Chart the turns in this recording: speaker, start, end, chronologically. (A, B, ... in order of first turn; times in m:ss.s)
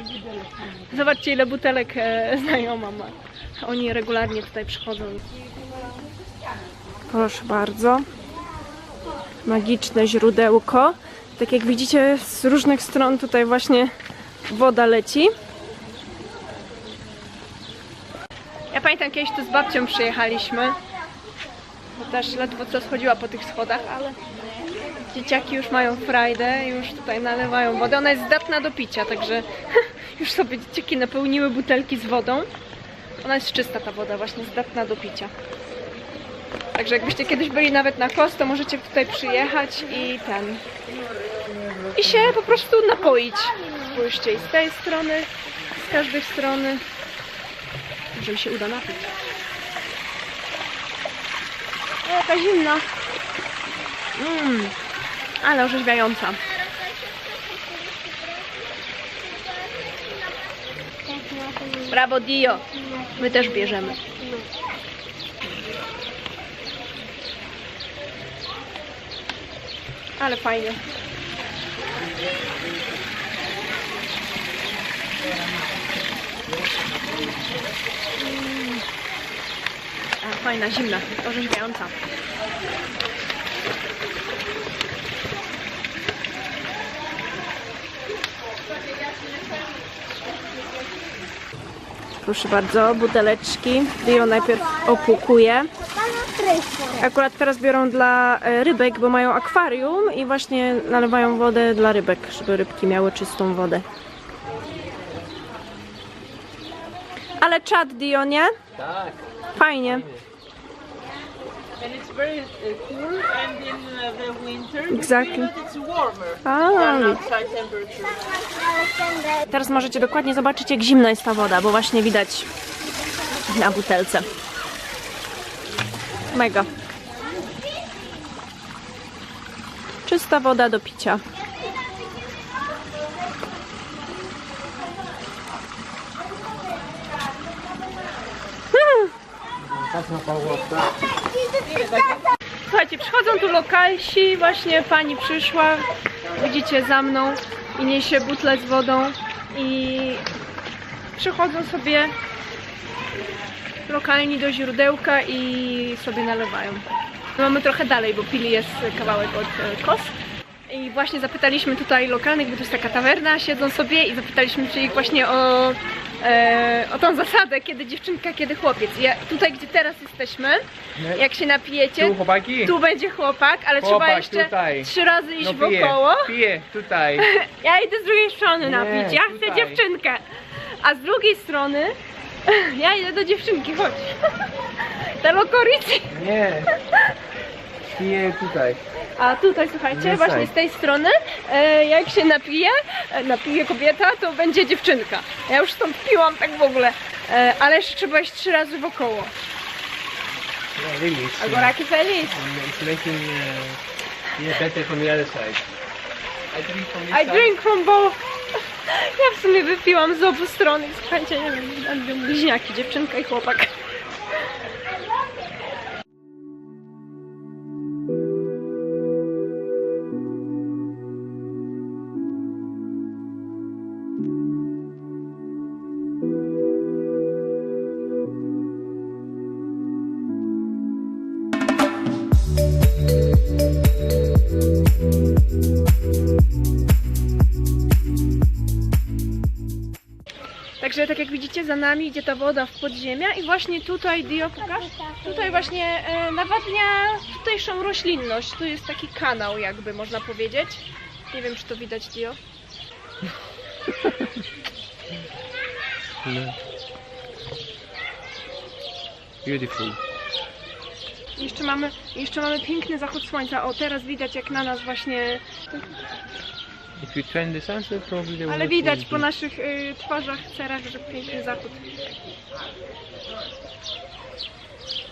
0:00.6-0:05.2 A
0:07.1-0:08.1 A
0:09.4-0:13.9 A
0:14.4-0:15.3 A
0:18.7-0:20.8 A
0:22.0-0:24.2 A
0:25.1-0:32.5 A
0:33.2-0:35.3 A
0:36.7-0:40.6 A
0:41.4-0:41.8 B
0:41.9-0:46.8 A
0:48.1-0:49.2 A
0:52.0-0:52.9 A
0:54.2-0:54.8 A
0:55.4-0:56.4 A
1:01.6-1:04.3 A
1:10.2-1:10.8 A
1:18.2-1:18.8 A
1:20.2-1:21.9 A
1:32.2-1:35.7 A
1:36.9-1:43.9 A
1:47.4-1:48.5 A
1:48.8-1:50.2 B
1:49.5-1:50.1 A
1:51.8-1:54.8 C
1:52.0-1:54.2 B
1:54.9-1:55.5 A
1:55.8-1:56.3 C
1:56.4-1:57.3 A
1:57.4-1:58.2 C
1:59.5-2:02.5 A
2:03.5-2:04.3 A
2:06.3-2:06.7 A
2:10.0-2:11.2 A
2:18.7-2:19.1 A
2:19.7-2:20.8 B
2:22.7-2:30.2 A
2:31.2-2:32.1 A
2:33.9-2:36.9 A
2:37.4-2:40.1 A
2:40.7-2:56.3 A
2:51.0-2:51.2 B
2:52.0-2:52.8 B
2:53.8-2:57.3 B
2:57.2-3:00.2 A
2:58.6-2:59.8 B
3:00.8-3:01.9 A
3:02.5-3:04.2 A
3:04.8-3:06.1 A
3:06.1-3:06.7 B
3:07.8-3:08.8 B
3:09.2-3:19.3 A
3:09.9-3:10.5 B
3:20.8-3:23.8 B
3:21.4-3:22.3 A
3:24.4-3:25.6 B
3:26.5-3:27.5 B
3:27.1-3:28.2 A
3:28.9-3:33.7 A
4:00.8-4:12.4 A
4:16.2-4:16.6 B
4:19.4-4:20.0 B
4:21.4-4:25.8 A
4:27.0-4:29.3 B
4:28.4-4:31.8 A